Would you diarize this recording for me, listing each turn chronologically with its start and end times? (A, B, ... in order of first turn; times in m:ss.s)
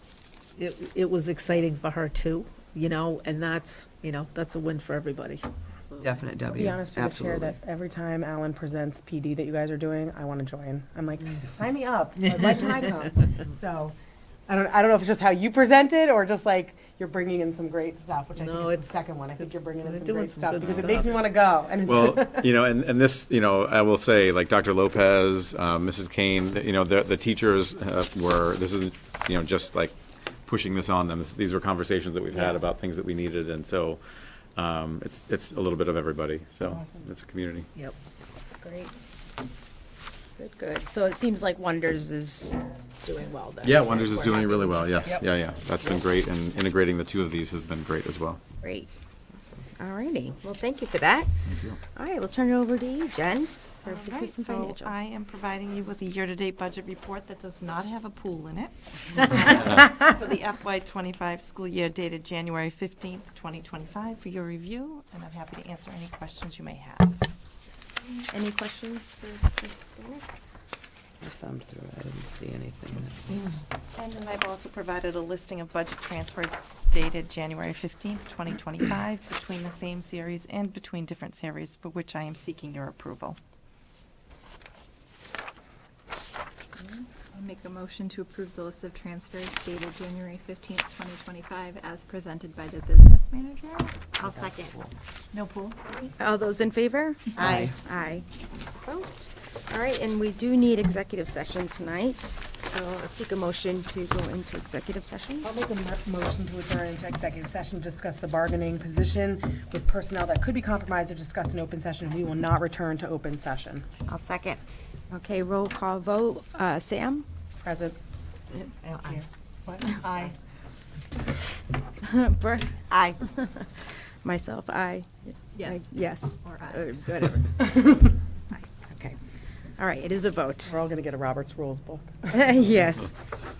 0:00.6-0:05.4 A
0:05.8-0:06.3 B
0:06.0-0:07.6 C
0:06.6-0:14.0 D
0:14.5-0:22.5 D
0:18.4-0:21.2 A
0:20.6-0:21.0 E
0:21.8-0:30.0 E
0:30.5-0:34.0 E
0:34.6-0:37.7 E
0:38.6-0:38.9 F
0:40.4-0:45.0 F
0:43.6-0:48.4 E
0:48.6-0:48.9 F
0:49.7-0:51.3 F
0:51.5-0:51.8 E
0:51.9-0:54.9 F
0:53.8-1:07.2 G
1:08.3-1:10.2 F
1:11.2-1:13.5 C
1:13.9-1:23.4 G
1:27.2-1:34.0 B
1:35.3-1:36.1 B
1:36.2-1:45.6 F
1:37.4-1:37.7 C
1:45.4-1:53.9 D
1:54.1-1:54.6 F
1:55.1-1:57.2 F
1:57.6-1:58.0 D
1:59.7-2:00.3 D
2:02.0-2:08.0 F
2:05.6-2:05.9 B
2:06.4-2:06.9 B
2:08.8-2:09.2 F
2:09.8-2:10.8 F
2:10.7-2:12.3 D
2:12.3-2:13.2 F